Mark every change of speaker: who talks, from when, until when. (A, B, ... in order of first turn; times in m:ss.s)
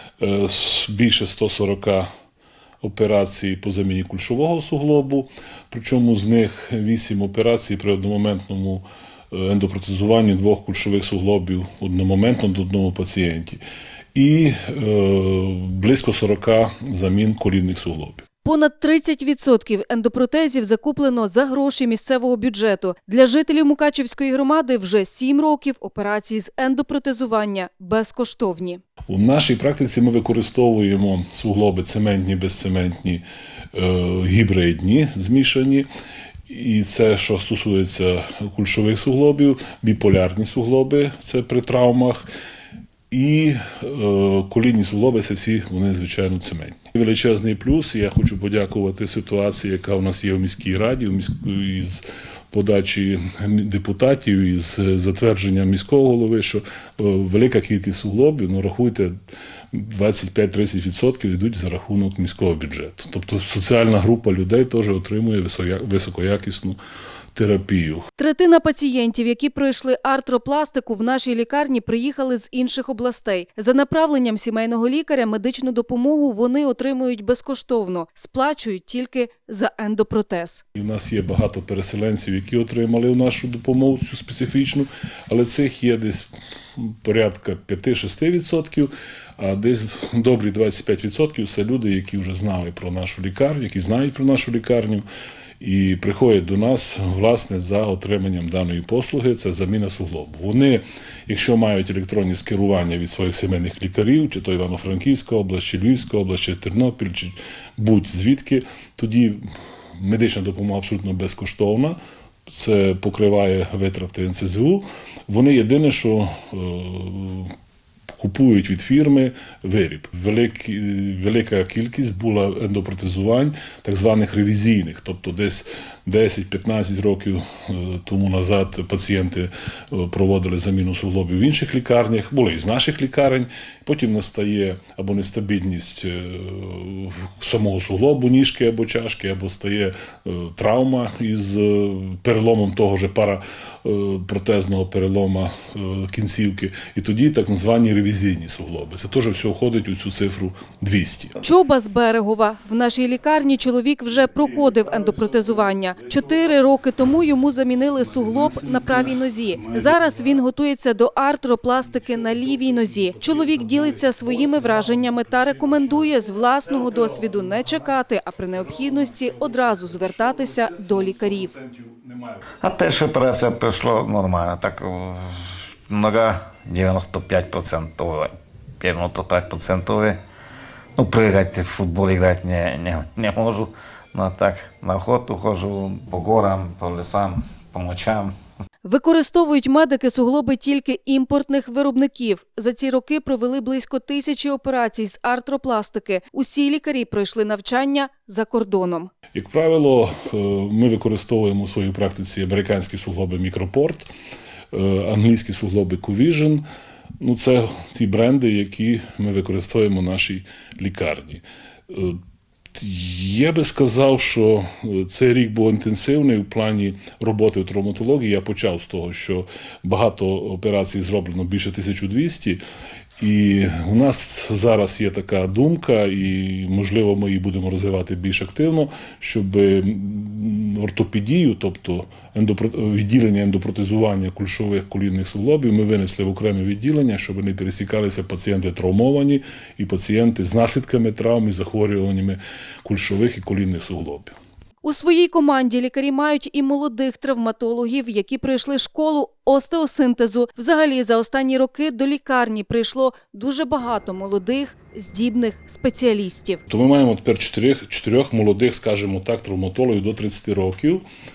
0:00.2-0:02.1 A
0:02.8-0:13.6 A
0:14.1-0:18.2 A
0:18.4-0:28.8 B
0:29.1-0:33.2 A
0:33.7-0:35.9 A
0:36.5-0:42.2 A
0:43.1-0:59.1 A
0:59.7-1:06.8 A
1:07.3-1:08.1 A
1:08.2-1:20.6 B
1:20.8-1:35.1 A
1:35.6-1:49.4 A
1:50.0-1:57.5 A
1:58.2-2:31.4 A
2:31.4-2:51.5 B
2:34.5-2:36.2 A
2:38.3-2:39.0 A
2:39.6-2:40.4 A
2:41.9-2:47.9 A
2:48.5-2:52.4 A
2:52.6-3:00.2 C
3:00.9-3:08.3 C
3:08.8-3:19.1 B
3:19.3-3:24.1 A
3:24.7-3:26.6 A
3:27.2-3:32.2 A
3:32.7-3:42.6 A
3:43.2-4:04.3 A
4:04.8-4:16.6 B
4:16.7-4:21.0 A